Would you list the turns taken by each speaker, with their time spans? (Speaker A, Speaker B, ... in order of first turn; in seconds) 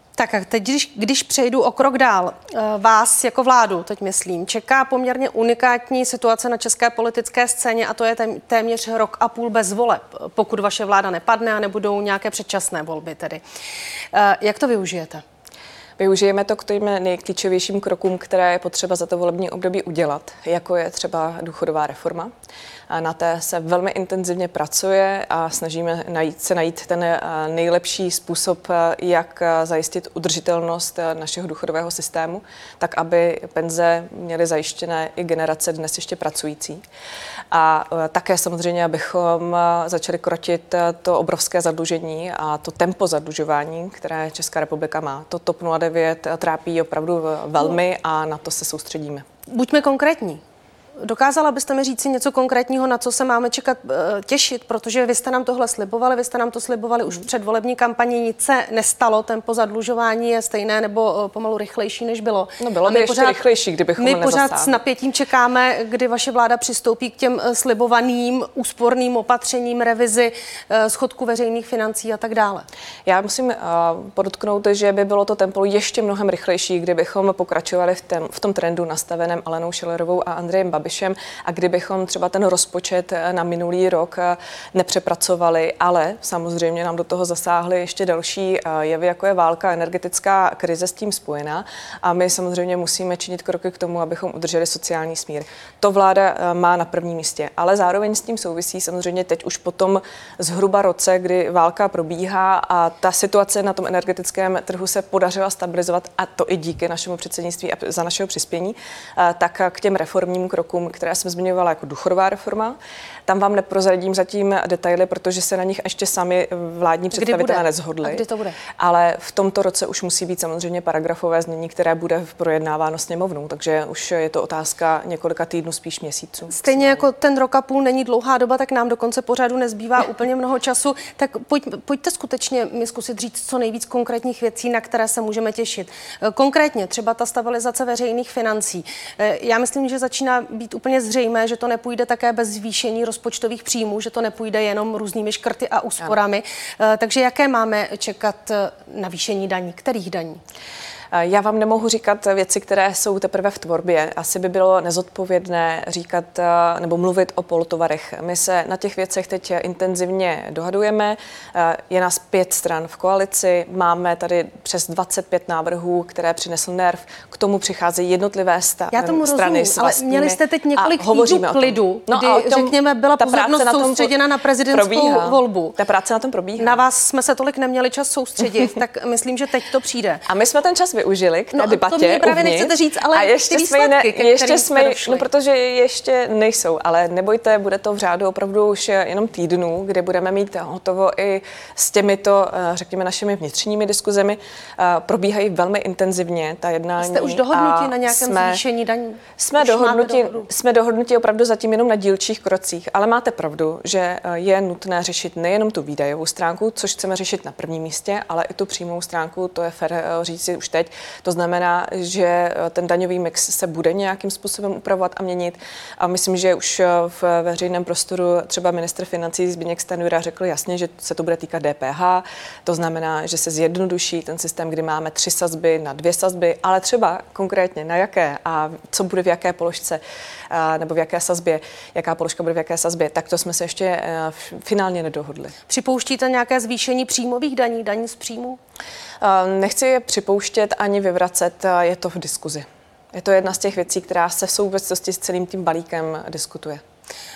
Speaker A: 0.2-13.4, 14.1-15.2, 49.5-50.4, 51.0-63.4, 64.0-72.7, 117.1-118.6, 126.5-150.4, 168.9-175.8, 176.6-180.2, 181.5-185.3, 197.0-200.5, 235.7-238.6
Speaker B: 16.0-22.3, 22.9-36.8, 37.5-49.2, 62.6-64.8, 73.1-118.2, 118.8-127.0, 151.1-174.1, 174.7-176.8, 180.3-198.6, 199.4-235.6, 239.2-246.8